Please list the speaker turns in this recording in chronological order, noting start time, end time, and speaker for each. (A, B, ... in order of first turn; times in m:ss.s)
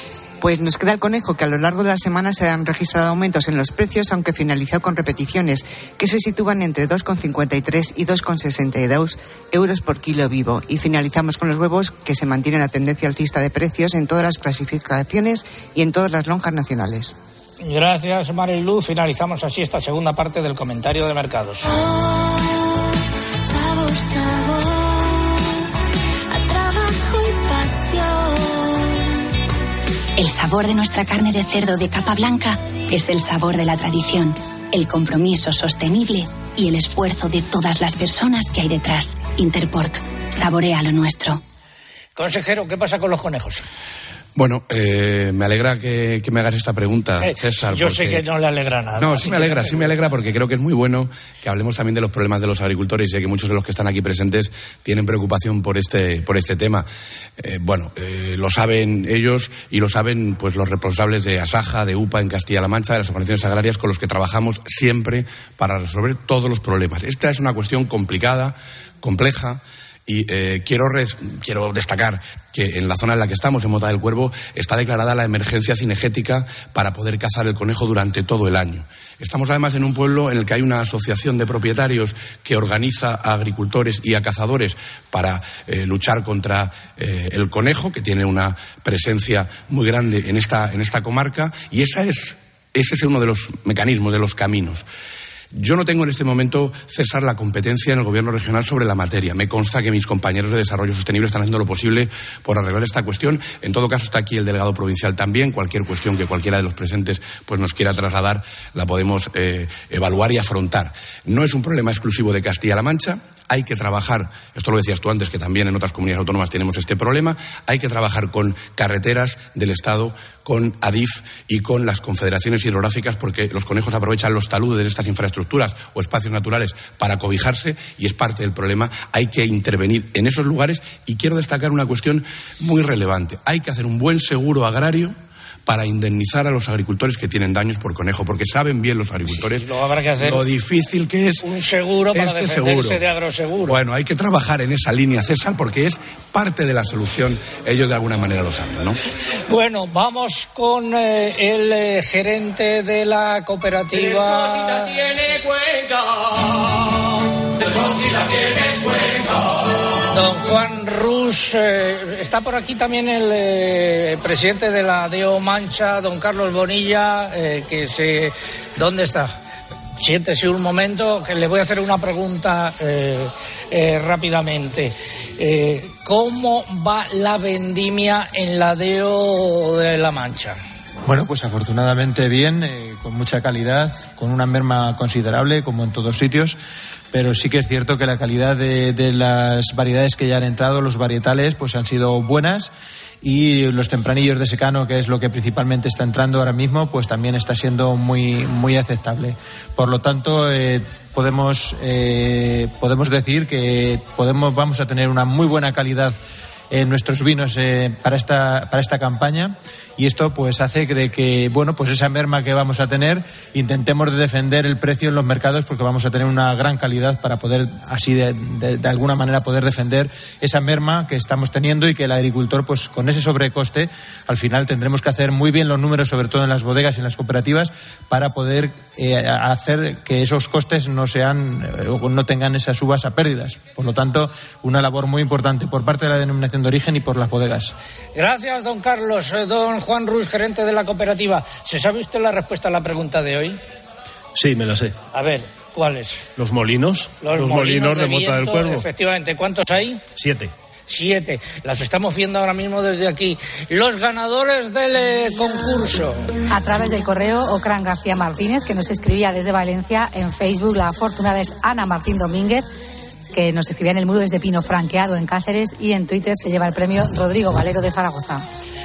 0:00.4-0:17.1 A
0:17.6-0:21.7 B
0:26.5-0:27.6 C
0:30.2-0:41.4 C
0:42.2-0:43.6 B
0:44.3-0:48.2 D
0:47.2-0:49.9 B
0:48.9-0:56.8 D
0:57.4-1:34.8 D
1:35.5-2:15.1 D
2:15.6-2:19.7 D
2:19.4-2:20.4 B
2:20.2-2:21.4 D
2:21.4-2:23.8 B
2:22.1-2:23.0 D
2:23.6-2:29.0 D
2:29.5-2:34.8 B
2:40.1-2:49.3 B
2:50.0-3:00.6 B
3:01.0-3:06.6 E
3:07.1-3:12.7 E
3:13.2-3:26.2 E
3:26.7-3:57.7 E
3:58.1-4:03.6 B
4:04.4-4:04.9 F
4:05.1-4:06.2 B
4:06.4-4:08.8 F
4:07.2-4:10.0 B
4:10.2-4:10.5 F
4:10.9-4:16.3 B
4:16.5-4:22.7 G
4:23.3-4:28.4 G